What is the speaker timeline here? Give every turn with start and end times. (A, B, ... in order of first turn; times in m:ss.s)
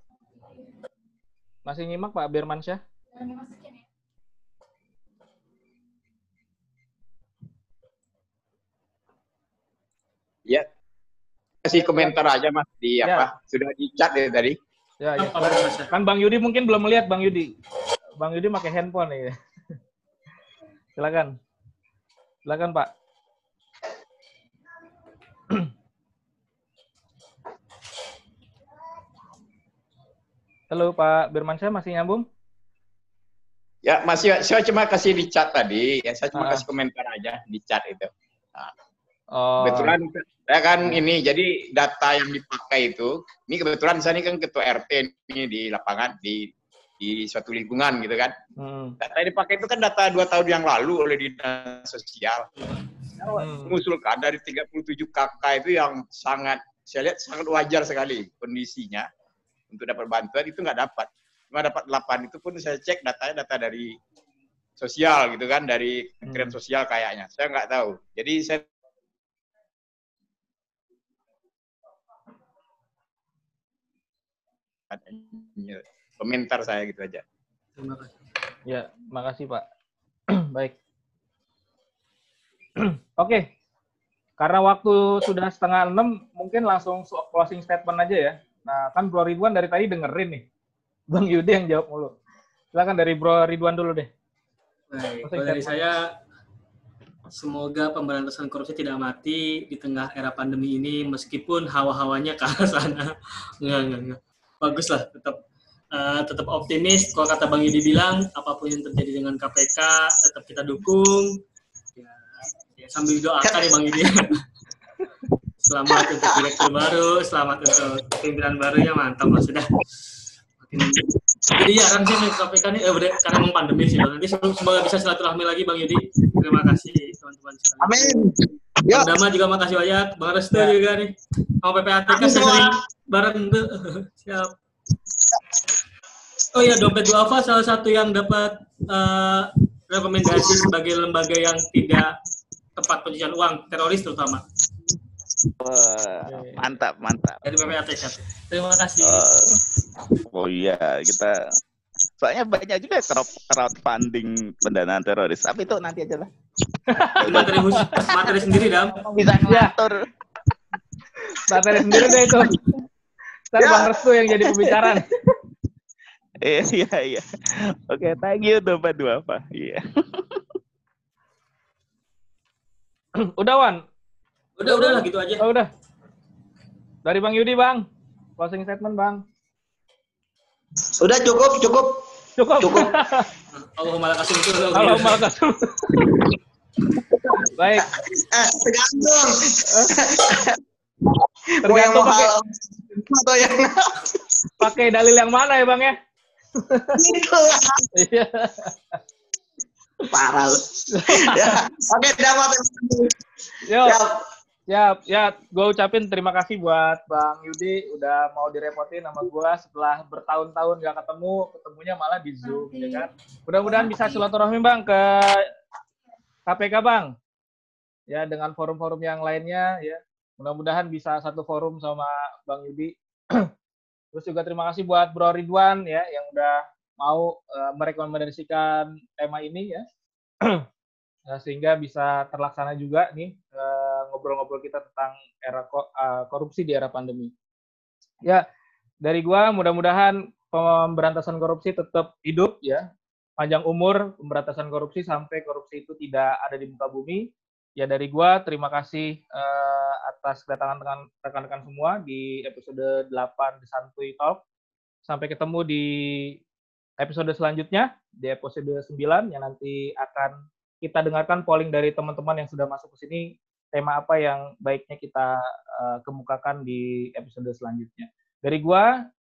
0:01.6-0:02.8 A
0:11.6-0:14.6 B
0:11.8-0:12.1 A
0:13.0-0:13.3 A
0:15.0-0:17.5 A
0:15.2-0:15.9 C
0:18.2-0:19.4 A
0:21.0-0:21.4 A
0:22.4-0:22.9 A
0:30.7-0:32.3 A
0:33.8-0:38.7 B
0:36.3-0:36.6 A
0:39.3-0:40.0 A
0:39.6-0:48.3 B
0:48.6-0:49.0 A
0:49.0-0:52.5 B
0:53.4-0:53.8 A
0:53.6-0:59.1 B
0:59.7-1:04.0 B
1:04.8-1:08.6 B
1:06.3-1:06.6 A
1:14.9-1:17.2 B
1:17.8-1:18.2 C
1:18.6-1:19.6 A
1:20.3-1:20.8 A
1:22.8-1:23.5 A
1:24.4-1:30.4 A
1:31.1-1:32.2 A
1:32.7-1:34.1 A
1:34.9-1:36.0 C
1:35.2-1:35.8 A
1:37.3-1:45.4 C
1:45.9-1:51.4 C
1:52.0-1:54.4 C
1:55.6-1:59.7 C
2:00.6-2:08.2 C
2:07.8-2:09.1 D
2:08.9-2:14.5 C
2:12.1-2:12.7 D
2:16.5-2:22.2 C
2:22.8-2:24.4 C
2:25.6-2:27.7 E
2:26.3-2:26.7 A
2:27.4-2:29.2 C
2:29.0-2:29.6 E
2:30.2-2:31.4 E
2:32.2-2:36.3 E
2:36.9-2:38.0 A
2:37.2-2:40.0 E
2:37.3-2:39.0 C
2:39.2-2:39.7 A
2:41.4-2:42.6 A
2:41.8-2:42.6 E
2:43.5-2:45.1 A
2:43.6-2:43.9 D
2:44.5-2:45.0 E
2:46.4-2:47.3 E
2:47.9-2:50.4 E
2:53.2-2:53.8 A
2:54.6-2:55.4 C
2:54.6-2:55.7 A
2:57.0-2:57.9 A
2:58.4-2:59.2 A
3:01.0-3:02.0 D
3:02.4-3:03.3 A
3:02.6-3:02.9 D
3:03.5-3:05.2 C
3:04.7-3:06.2 A
3:07.1-3:10.6 D
3:07.6-3:07.9 A
3:11.6-3:13.9 D
3:11.6-3:12.3 A
3:14.6-3:16.0 A
3:16.6-3:17.0 A
3:16.9-3:17.9 D
3:17.9-3:19.0 A
3:20.1-3:23.2 D
3:20.9-3:21.6 A
3:23.6-3:24.0 A
3:23.8-3:24.2 D
3:24.7-3:35.4 A
3:36.5-3:37.1 A
3:38.1-3:43.5 A
3:44.1-3:49.8 A
3:51.3-3:57.3 A
3:59.0-4:02.9 A
4:03.4-4:14.4 A
4:15.1-4:16.4 A
4:17.0-4:28.9 A